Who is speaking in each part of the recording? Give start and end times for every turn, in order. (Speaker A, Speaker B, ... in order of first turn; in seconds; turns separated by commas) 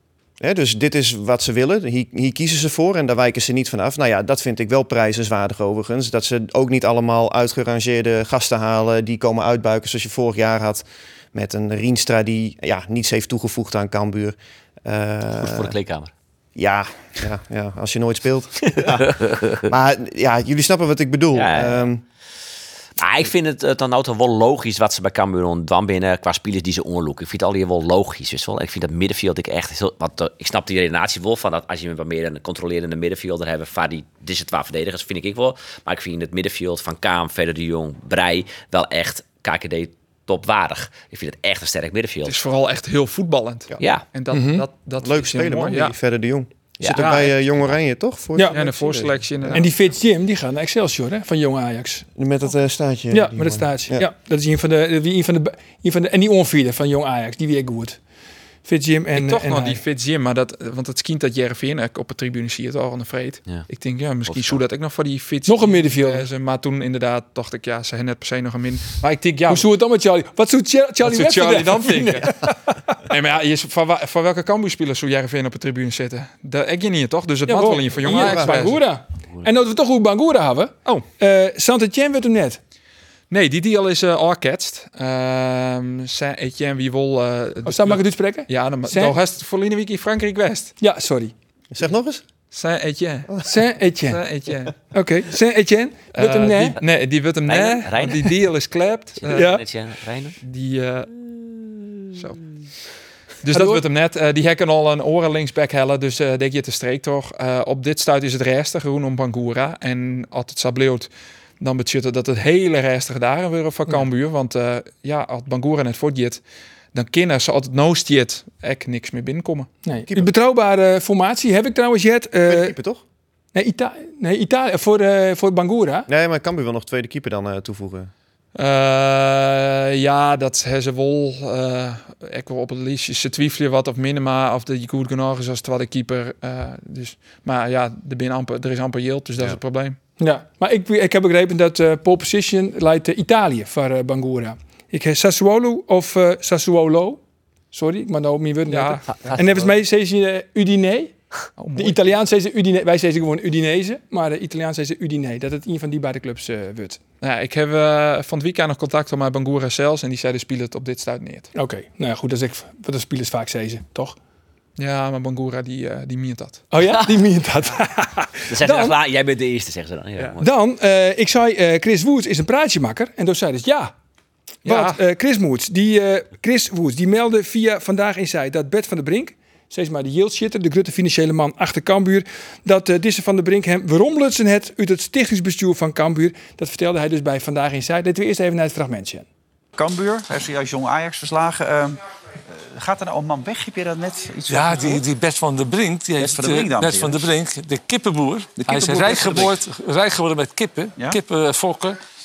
Speaker A: 0.4-15.7, Speaker B: 15.3-16.1, Speaker A: 16.6-22.0, Speaker B: 18.7-19.6, Speaker B: 21.3-21.9, Speaker B: 23.0-42.3, Speaker C: 42.2-45.9, Speaker B: 43.8-44.0, Speaker D: 44.3-44.6, Speaker A: 45.0-49.6, Speaker B: 46.8-47.8, Speaker C: 46.9-47.3, Speaker C: 48.5-49.7, Speaker D: 49.5-52.0, Speaker A: 52.1-54.1, Speaker D: 53.1-58.0, Speaker D: 58.6-59.8, Speaker C: 59.1-69.7, Speaker B: 64.3-64.6, Speaker D: 65.5-66.3, Speaker D: 69.5-73.0, Speaker C: 71.0-72.3, Speaker C: 73.1-78.8, Speaker D: 77.5-82.6, Speaker A: 78.2-78.5, Speaker C: 83.3-90.7, Speaker D: 87.7-89.2, Speaker D: 90.8-91.3, Speaker A: 91.7-92.3, Speaker C: 92.5-93.4, Speaker D: 93.5-94.2, Speaker C: 94.0-94.7, Speaker D: 94.9-96.8, Speaker C: 96.1-99.6, Speaker B: 97.5-98.3, Speaker B: 99.2-100.4, Speaker D: 99.3-99.6, Speaker C: 100.4-101.1, Speaker B: 101.5-101.9, Speaker C: 103.4-116.4, Speaker D: 103.5-103.8, Speaker C: 116.9-119.7, Speaker D: 119.8-122.8, Speaker A: 120.1-120.3, Speaker A: 122.5-123.0, Speaker D: 123.5-126.1, Speaker A: 126.1-128.1, Speaker C: 128.5-140.0, Speaker D: 140.2-147.2, Speaker D: 147.7-157.0, Speaker C: 148.7-149.1, Speaker C: 151.6-152.1, Speaker C: 157.2-161.5, Speaker D: 161.5-164.2, Speaker C: 164.8-166.6, Speaker D: 166.7-168.9, Speaker B: 168.5-170.5, Speaker D: 170.4-173.9, Speaker C: 174.6-175.0, Speaker D: 174.6-189.2, Speaker E: 189.8-195.0, Speaker F: 194.5-202.0, Speaker E: 196.2-197.2, Speaker E: 198.6-199.5